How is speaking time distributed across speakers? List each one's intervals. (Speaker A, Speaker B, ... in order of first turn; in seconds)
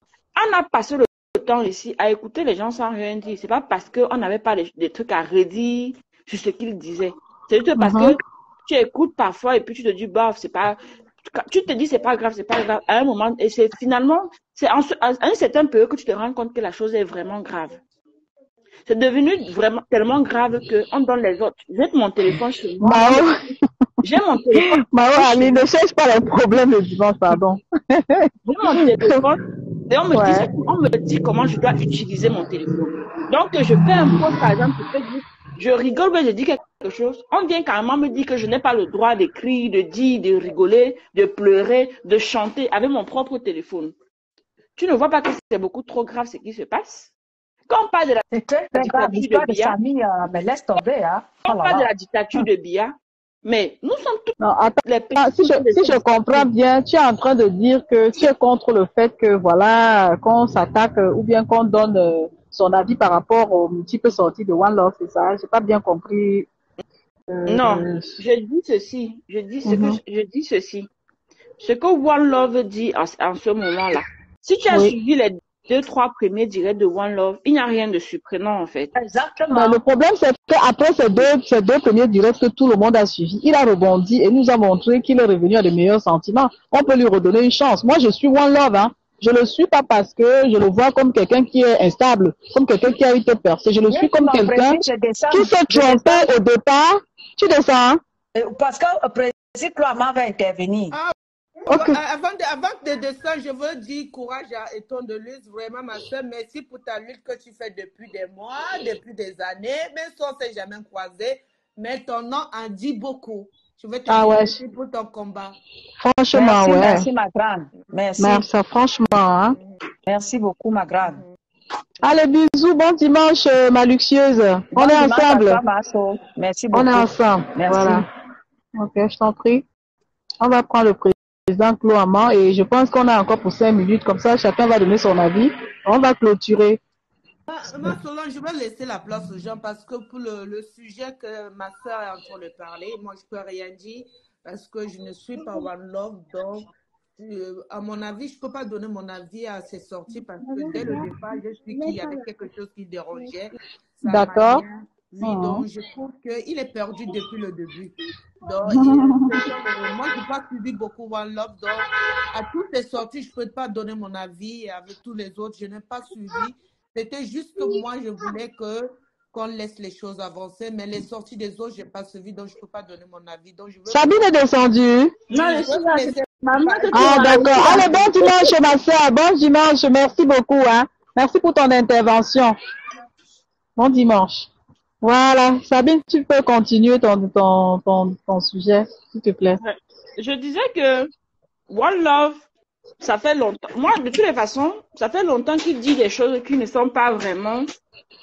Speaker A: 0.3-17.8, 18.9-23.3, 24.0-25.6, 28.4-43.9, 44.8-47.1, 47.7-49.7, 51.4-56.5, 67.5-70.9, 71.6-78.9, 150.7-151.0, 151.8-152.1, 175.3-178.4, 189.6-191.1, 191.7-192.4, 193.0-197.7
Speaker B: 7.8-8.2, 22.8-23.4, 24.5-29.2, 30.1-30.5, 34.0-34.3, 54.4-66.5, 67.3-68.2, 69.6-70.0, 74.7-75.0, 79.5-98.0, 101.7-102.0, 114.1-114.5, 116.0-117.0, 118.2-119.6, 122.0-125.6, 126.7-128.1, 128.8-129.7, 130.4-136.8, 154.0-154.6, 155.2-155.6, 158.6-159.4, 173.9-175.1, 176.9-182.6, 183.8-184.5, 185.0-189.6
Speaker C: 48.3-52.5, 78.9-79.8, 93.9-96.3, 98.3-101.0, 116.3-118.5, 120.1-121.2, 124.7-128.1
Speaker D: 100.9-115.6, 137.5-174.2, 175.3-178.0